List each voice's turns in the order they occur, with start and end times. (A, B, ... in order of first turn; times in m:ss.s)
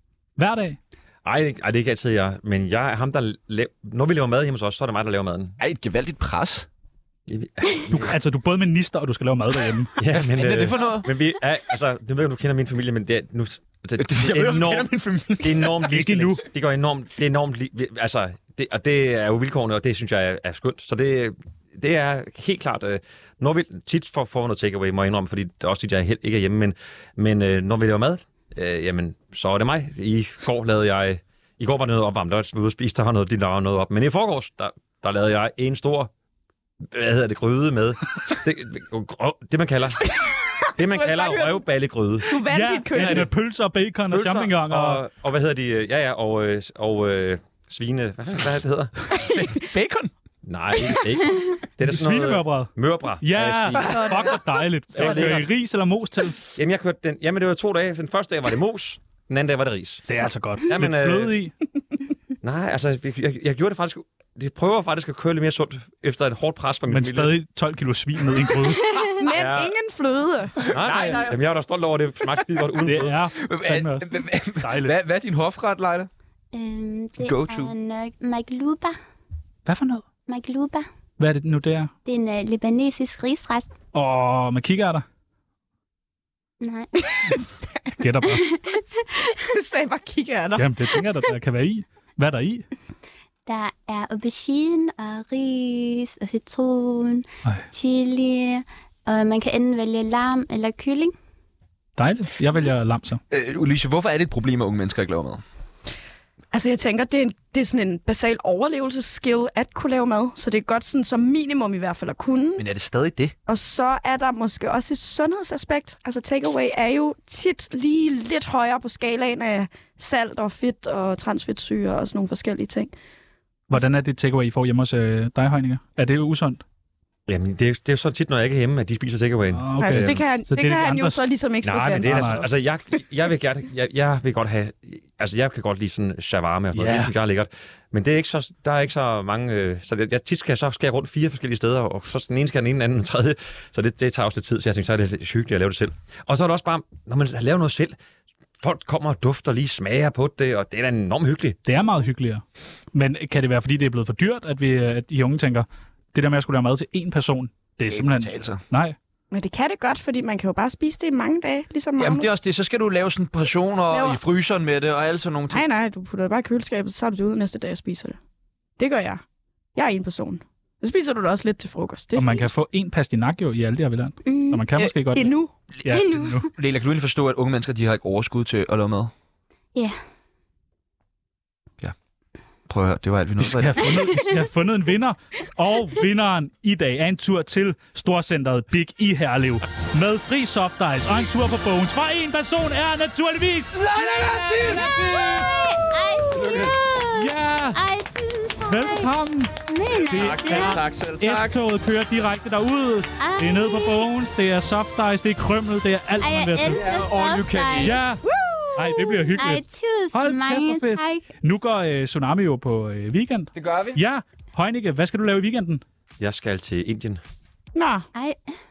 0:00.4-0:00.8 A
0:01.2-0:05.6 B
0:05.6-0:06.7 C
0:07.3-0:08.2 B
0:07.9-0:10.0 A
0:10.0-0:36.1 B
0:10.1-0:11.1 C
0:14.0-0:15.8 C
0:15.9-0:16.4 A
0:36.8-0:40.1 B
0:40.1-0:41.6 D
0:40.8-0:42.4 B
0:42.3-0:43.3 D
0:42.5-0:45.0 A
0:42.9-0:43.3 B
0:44.1-0:48.9 B
0:49.1-0:50.1 C
0:50.4-0:54.2 B
0:51.8-0:56.4 A
0:53.9-0:54.3 D
0:54.9-0:55.5 B
0:56.6-1:00.0 B
1:00.1-1:01.6 A
1:00.7-1:01.4 B
1:02.4-1:07.3 B
1:06.9-1:08.9 A
1:09.1-1:10.7 D
1:09.4-1:09.8 B
1:10.6-1:11.4 C
1:10.7-1:13.2 B
1:12.9-1:15.0 A
1:13.4-1:16.1 C
1:16.5-1:19.0 E
1:17.2-1:17.7 C
1:19.7-1:20.0 A
1:20.3-1:20.9 E
1:21.2-1:21.9 A
1:22.1-1:23.7 E
1:23.9-1:25.0 A
1:26.6-1:26.9 E
1:27.0-1:28.0 D
1:28.0-1:28.5 A
1:29.2-1:30.6 D
1:30.6-1:32.7 A
1:33.5-1:41.1 E
1:42.0-1:43.2 A
1:43.3-1:45.4 C
1:46.5-1:52.6 D
1:52.6-1:53.4 C
1:53.5-2:02.9 D
2:03.7-2:06.6 A
2:07.3-2:10.2 B
2:09.5-2:11.3 A
2:09.8-2:12.5 D
2:11.6-2:28.0 B
2:11.9-2:12.4 A
2:16.8-2:17.1 A
2:28.6-2:31.6 B
2:31.6-2:39.0 A
2:37.9-2:38.6 C
2:39.3-2:42.3 D
2:42.0-2:45.6 C
2:43.9-2:44.2 D
2:45.5-2:48.2 D
2:48.8-2:49.2 D
2:49.8-2:52.5 D
2:52.2-2:56.5 A
2:54.3-2:54.6 E
2:54.8-2:55.5 D
2:55.9-2:56.4 E
2:56.5-2:59.1 C
3:02.7-3:04.3 C
3:03.4-3:13.8 A
3:13.7-3:15.0 C
3:14.0-3:19.1 E
3:14.7-3:15.4 A
3:16.3-3:16.8 C
3:17.1-3:17.8 A
3:18.7-3:19.6 A
3:19.7-3:20.8 E
3:20.1-3:26.9 A
3:20.1-3:21.6 C
3:23.2-3:24.1 E
3:26.2-3:28.0 E
3:26.6-3:28.0 C
3:27.8-3:28.2 A
3:28.2-3:29.0 D
3:28.8-3:35.8 A
3:29.0-3:31.3 E
3:33.6-3:34.0 C
3:36.2-3:37.2 B
3:37.8-3:38.1 D
3:38.1-3:38.5 E